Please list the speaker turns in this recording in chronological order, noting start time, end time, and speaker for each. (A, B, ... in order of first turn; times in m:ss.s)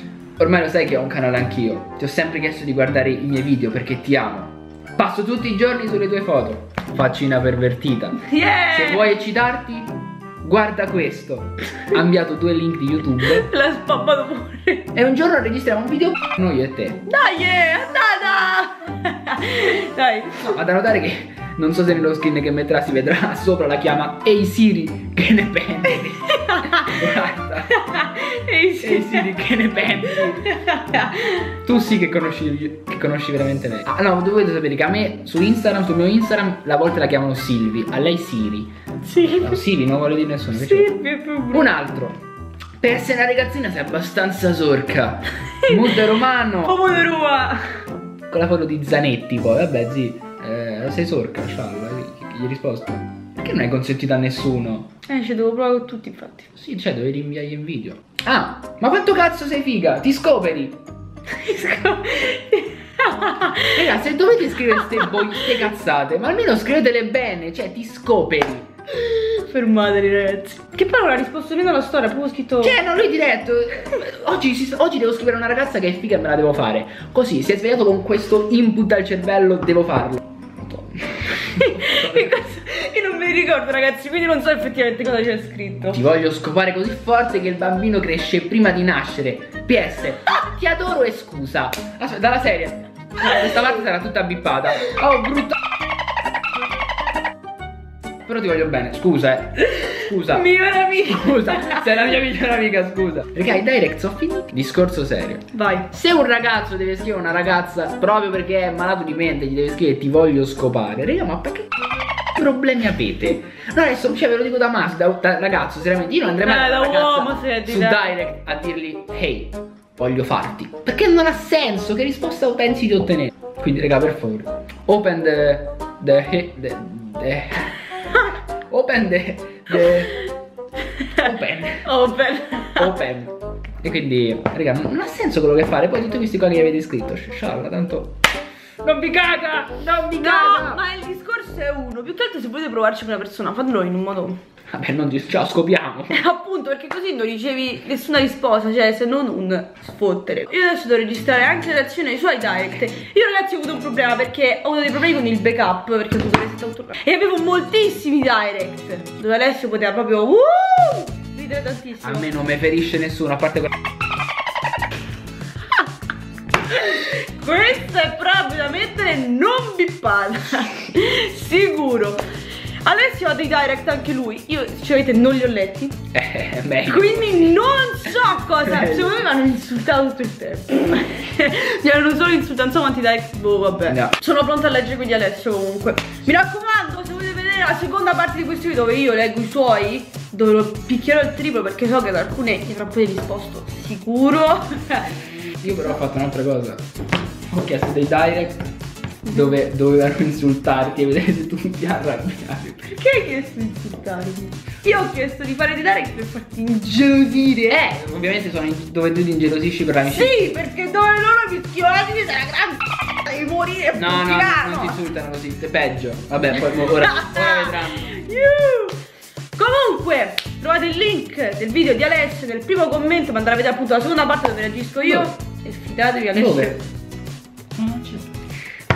0:00.4-0:13.5 A
0:08.2-0:09.1 B
0:13.2-0:14.9 B
0:14.9-0:17.0 A
0:17.1-0:20.6 B
0:20.4-0:27.8 A
0:25.9-0:27.1 B
0:27.7-0:31.5 B
0:28.8-0:30.6 A
0:31.6-0:38.7 A
0:39.0-0:39.6 B
0:39.2-0:40.9 A
0:40.5-0:41.7 B
0:41.5-0:42.2 A
0:42.8-0:46.8 A
0:45.7-0:47.8 B
0:48.3-0:54.9 A
0:55.1-0:56.5 B
0:56.5-1:00.8 A
1:01.3-1:03.9 B
1:03.7-1:08.7 A
1:04.7-1:05.6 B
1:08.9-1:12.8 B
1:12.6-1:22.4 A
1:21.6-1:26.0 B
1:25.9-1:35.6 A
1:38.3-1:51.7 A
1:39.7-1:42.0 B
1:45.5-1:45.9 B
1:52.3-2:07.8 A
1:56.4-1:58.2 B
2:08.7-2:10.2 A
2:09.8-2:13.0 B
2:11.2-2:11.9 A
2:12.8-2:18.2 A
2:18.8-2:20.8 A
2:20.2-2:24.4 B
2:24.7-2:26.2 A
2:26.1-2:42.3 B
2:42.0-2:43.7 A
2:46.6-2:52.2 B
2:52.8-2:56.0 B
2:56.1-2:57.5 A
2:56.8-3:16.0 B
2:58.7-2:59.1 A
3:03.9-3:04.1 A
3:15.6-3:16.8 A
3:17.5-3:18.7 A
3:19.3-3:19.6 B
3:19.3-3:22.9 A
3:22.8-3:27.8 B
3:27.7-3:30.4 A
3:30.0-3:35.0 B
3:34.0-3:38.2 A
3:36.5-3:39.0 B
3:39.6-3:46.8 B
3:45.0-3:45.3 A
3:46.3-3:46.8 A
3:47.8-3:48.3 A